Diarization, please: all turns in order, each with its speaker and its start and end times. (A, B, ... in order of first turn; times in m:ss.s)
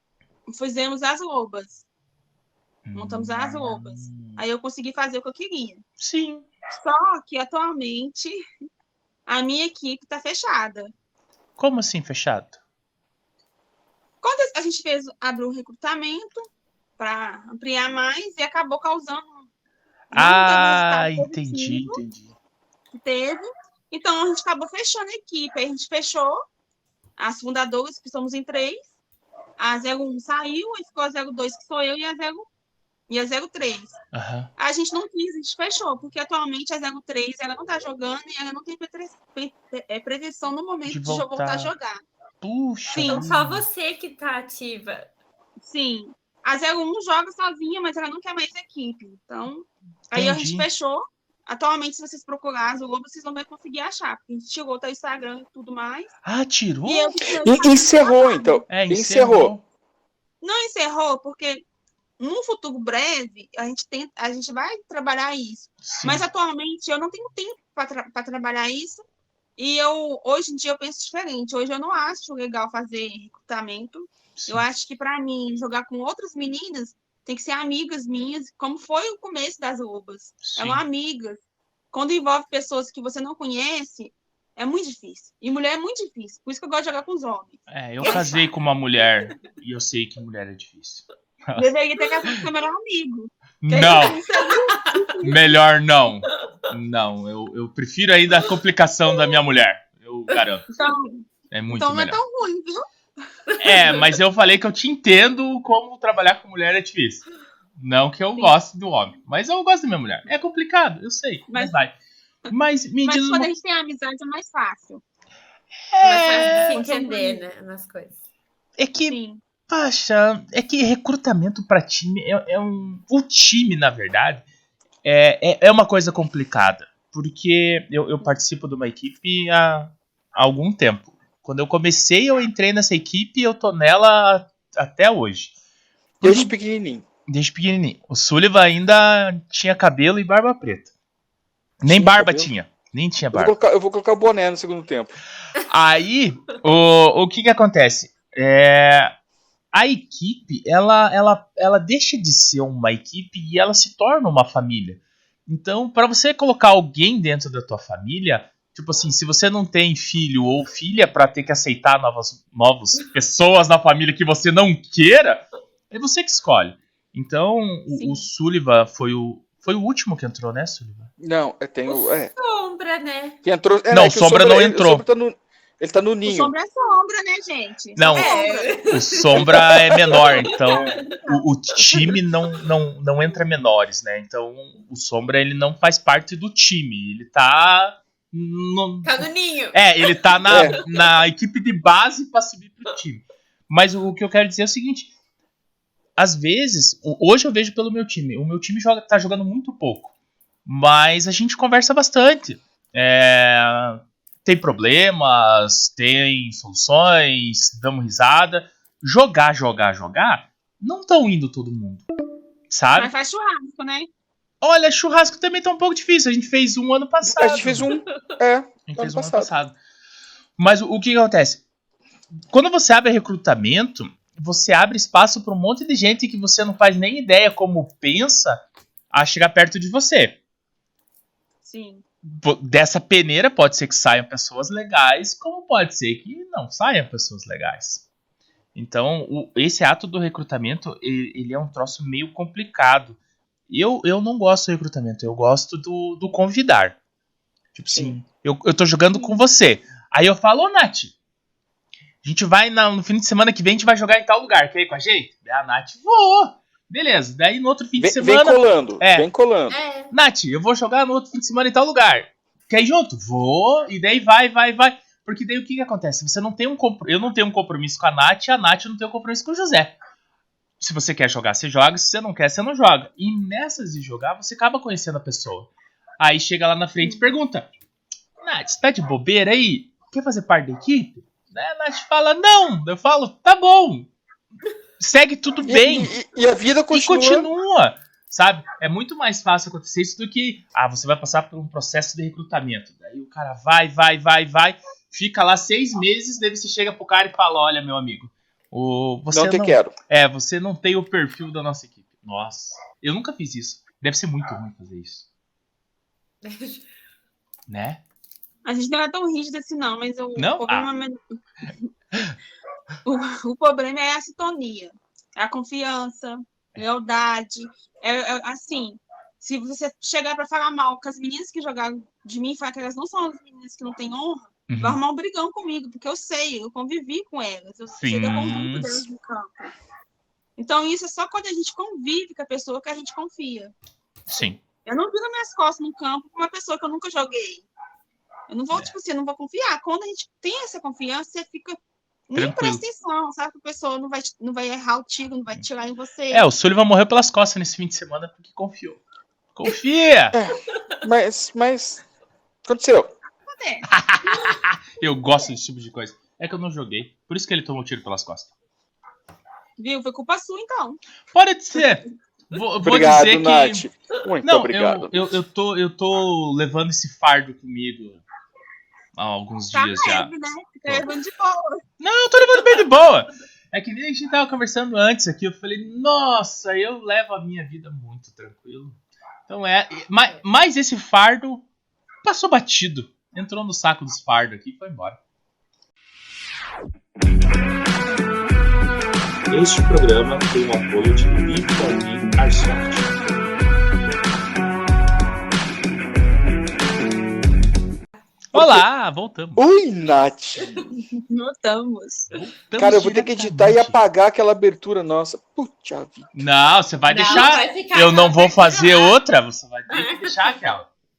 0:00.5-0:01.8 A
0:02.8-0:04.4 B
0:02.9-0:05.8 A
0:06.0-0:06.5 B
0:06.7-0:08.4 A
0:09.3-0:10.9 A
0:11.6-0:12.6 B
0:14.2-0:19.4 A
0:20.1-0:22.0 A
0:20.1-0:22.3 B
0:22.9-0:26.4 A
0:27.2-0:28.9 A
0:29.6-0:32.5 A
0:33.1-0:34.0 A
0:34.1-0:34.5 B
0:34.6-0:42.0 A
0:40.9-0:41.7 B
0:42.4-0:43.6 B
0:42.9-0:43.2 A
0:43.0-0:45.1 C
0:45.6-0:56.1 A
0:50.1-0:50.7 B
0:56.2-0:57.1 B
0:56.9-0:58.6 A
0:57.3-0:59.5 D
0:58.7-0:59.6 B
1:00.4-1:01.6 A
1:02.2-1:09.0 A
1:05.8-1:06.2 B
1:09.6-1:21.4 A
1:14.4-1:14.6 B
1:20.4-1:20.8 B
1:21.9-1:28.5 A
1:27.7-1:31.7 B
1:31.6-1:35.5 A
1:33.6-1:34.2 B
1:34.4-1:35.0 C
1:35.2-1:40.6 B
1:40.7-1:42.9 A
1:41.5-1:42.2 B
1:43.6-1:47.2 B
1:47.8-1:51.9 B
1:51.5-1:51.8 A
1:52.5-1:53.5 B
1:53.0-1:55.0 A
1:55.9-1:56.8 B
1:56.0-1:58.2 C
1:56.1-1:57.4 A
1:58.8-1:59.2 B
1:59.1-1:59.4 A
1:59.7-2:04.4 B
2:05.0-2:15.5 B
2:16.2-2:16.5 B
2:16.2-2:17.0 D
2:17.3-2:20.9 B
2:21.8-2:23.5 B
2:21.9-2:22.5 D
2:23.3-2:25.1 D
2:25.6-2:29.1 B
2:29.7-2:51.1 B
2:47.9-2:48.2 A
2:51.2-2:52.3 D
2:51.8-2:53.4 C
2:53.4-2:56.5 D
2:53.9-2:55.0 B
2:56.2-2:58.8 A
2:58.0-2:58.3 B
2:58.1-2:59.6 C
2:58.9-3:15.1 B
3:00.2-3:01.0 C
3:00.4-3:01.4 A
3:09.0-3:10.6 C
3:10.5-3:10.8 D
3:16.2-3:20.1 B
3:20.6-3:32.0 B
3:32.7-3:33.1 B
3:33.0-3:34.1 A
3:34.6-3:37.9 B
3:37.2-3:39.5 D
3:38.9-3:39.8 B
3:40.6-3:41.6 B
3:42.5-3:50.4 B
3:51.6-3:52.0 A
3:52.2-3:58.0 B
3:58.7-4:03.2 B
4:03.7-4:07.0 B
4:07.7-4:11.1 B
4:07.9-4:08.2 D
4:09.1-4:09.4 A
4:12.2-4:19.3 B
4:18.0-4:19.8 D
4:19.7-4:20.1 C
4:20.1-4:29.9 B
4:30.8-4:37.7 B
4:37.0-4:37.3 A
4:38.4-4:44.1 B
4:45.0-4:46.1 B
4:45.6-4:47.5 D
4:46.9-5:05.2 B
4:59.3-4:59.9 D
5:06.4-5:06.9 C
5:07.7-5:08.0 B
5:08.6-5:11.7 A
5:10.4-5:10.9 B
5:13.0-5:29.7 A
5:24.7-5:25.0 B
5:28.0-5:29.0 B
5:30.6-5:33.7 A
5:34.3-5:34.6 B
5:34.8-5:37.7 A
5:38.5-5:46.4 A
5:42.4-5:42.8 B
5:46.3-5:49.0 B
5:49.5-5:50.4 B
5:50.3-5:52.0 D
5:52.6-5:53.1 D
5:53.5-5:53.9 A
5:53.9-5:58.5 B
5:59.8-6:01.0 A
6:01.3-6:03.9 B
6:02.8-6:05.2 D
6:04.4-6:08.2 B
6:09.2-6:10.3 B
6:09.7-6:11.8 A
6:12.0-6:19.0 B
6:19.5-6:21.6 B
6:22.2-6:25.2 B
6:29.5-6:33.1 E
6:38.5-6:38.9 D
6:38.5-6:39.6 B
6:39.6-6:40.8 D
6:41.1-6:42.3 A
6:42.3-6:44.0 B
6:42.8-6:46.3 D
6:46.3-6:50.9 B
6:47.1-6:49.1 C
6:49.9-6:50.6 C